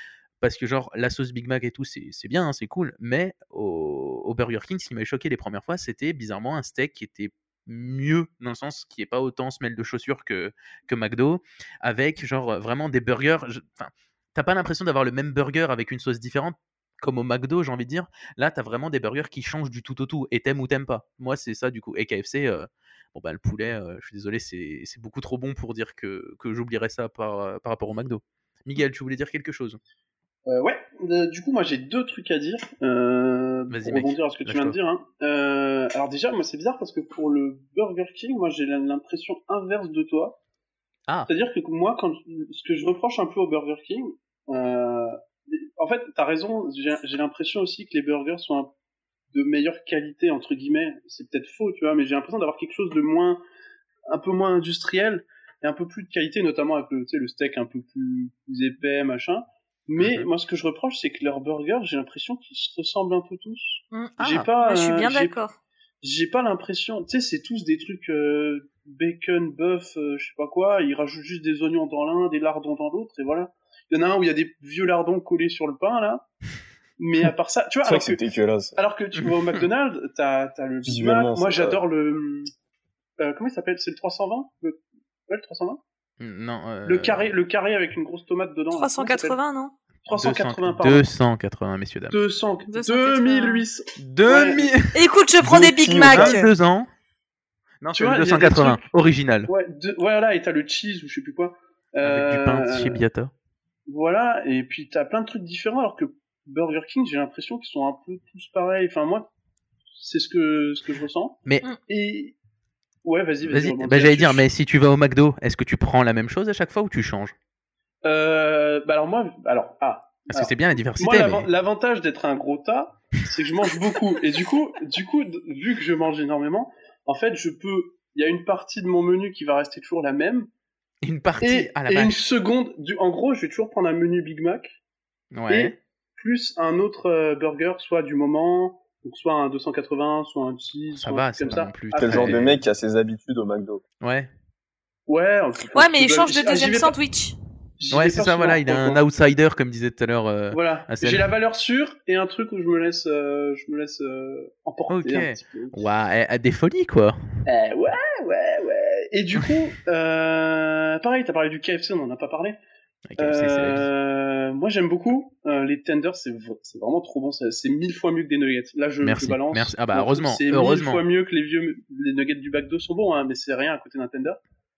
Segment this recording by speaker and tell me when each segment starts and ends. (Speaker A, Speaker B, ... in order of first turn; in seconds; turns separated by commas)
Speaker A: 0.4-29.8, Speaker B: 30.5-40.4, Speaker A: 33.7-34.8, Speaker B: 41.3-48.7, Speaker B: 49.3-53.4, Speaker B: 54.1-65.3, Speaker A: 60.0-60.3, Speaker C: 63.9-65.6, Speaker A: 64.2-64.5, Speaker B: 66.0-76.3, Speaker B: 77.0-78.2, Speaker D: 77.8-78.8, Speaker B: 78.8-82.5, Speaker A: 79.2-79.6, Speaker D: 80.8-81.8, Speaker B: 83.2-85.8, Speaker A: 86.2-87.3, Speaker B: 86.9-89.4, Speaker C: 88.7-89.7, Speaker B: 90.1-91.1, Speaker A: 90.1-92.2, Speaker B: 92.1-94.7, Speaker C: 92.7-93.7, Speaker A: 94.0-95.0, Speaker C: 94.9-96.5, Speaker D: 95.4-96.4, Speaker A: 96.1-96.9, Speaker A: 97.8-99.5, Speaker B: 97.9-98.8, Speaker B: 99.5-103.0, Speaker A: 102.0-103.3, Speaker B: 103.9-109.3, Speaker B: 110.0-112.4, Speaker B: 113.0-114.5, Speaker A: 113.4-117.3, Speaker B: 118.0-130.5, Speaker A: 120.3-121.5, Speaker A: 131.0-132.2, Speaker B: 131.4-134.8, Speaker A: 135.3-135.8, Speaker B: 135.5-142.4, Speaker A: 140.9-142.6, Speaker D: 142.0-143.8, Speaker A: 144.0-144.3, Speaker B: 145.1-147.0, Speaker C: 145.7-147.4, Speaker B: 147.8-149.0, Speaker A: 147.9-151.3, Speaker B: 150.5-155.8, Speaker A: 154.9-157.2, Speaker B: 157.5-162.6, Speaker A: 163.1-163.9, Speaker B: 163.2-174.4, Speaker A: 169.0-171.0